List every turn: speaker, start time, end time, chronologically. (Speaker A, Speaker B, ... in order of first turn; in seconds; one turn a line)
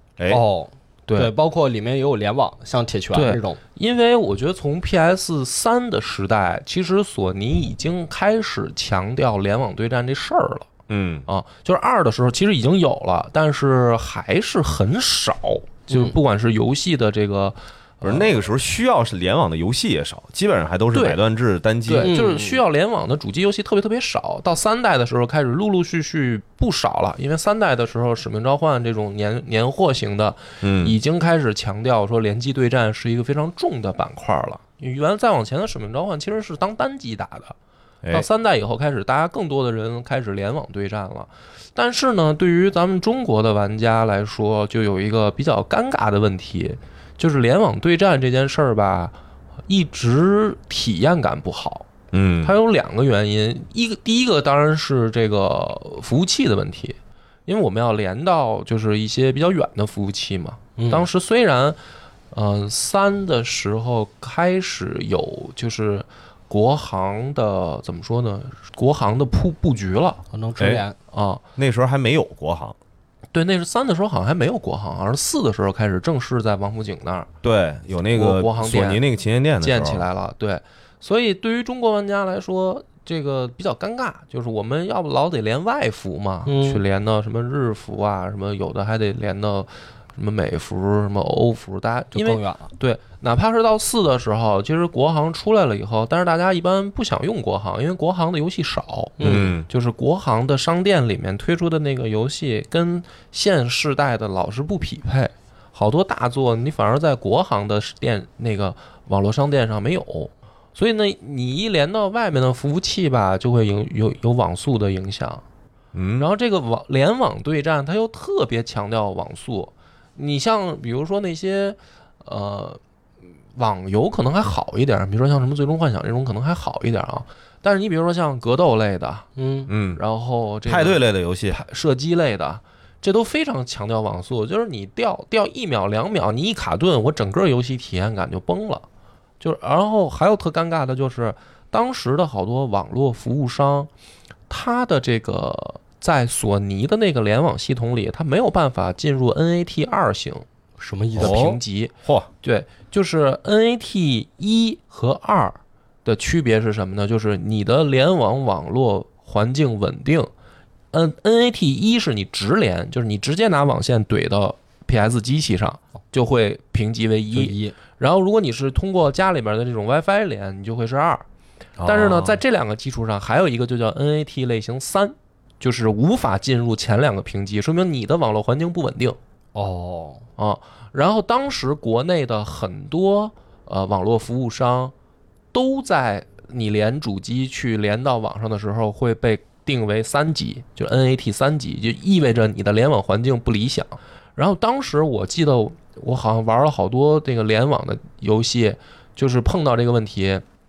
Speaker A: 0.3-3.6
Speaker B: 1.1-1.3
Speaker B: 3.1-10.7
Speaker C: 10.9-11.3
Speaker B: 11.3-18.3
Speaker A: 15.9-16.2
Speaker C: 18.0-22.1
Speaker B: 21.9-37.5
Speaker A: 22.0-22.6
Speaker C: 30.6-30.9
Speaker B: 38.1-49.1
Speaker B: 49.7-51.9
Speaker C: 52.1-52.5
Speaker B: 52.4-61.8
Speaker A: 60.8-61.1
Speaker B: 62.3-70.2
Speaker A: 70.3-71.0
Speaker C: 70.6-70.8
Speaker B: 71.1-71.4
Speaker C: 71.6-72.8
Speaker B: 73.3-77.3
Speaker C: 77.4-80.0
Speaker B: 78.1-79.0
Speaker B: 79.6-115.4
Speaker A: 86.5-86.8
Speaker A: 92.1-92.7
Speaker A: 99.2-99.5
Speaker C: 99.2-99.7
Speaker C: 115.9-116.3
Speaker B: 116.2-122.8
Speaker B: 123.5-129.3
Speaker A: 129.4-129.7
Speaker C: 129.7-130.0
Speaker B: 129.9-138.9
Speaker C: 130.7-131.6
Speaker B: 139.4-143.9
Speaker B: 144.5-150.4
Speaker A: 150.8-151.6
Speaker B: 151.2-160.3
Speaker C: 151.2-152.3
Speaker B: 160.9-171.2
Speaker A: 167.3-167.8
Speaker C: 171.8-172.4
Speaker B: 171.8-179.2
Speaker A: 179.6-180.2
Speaker B: 180.4-184.9
Speaker B: 185.5-200.4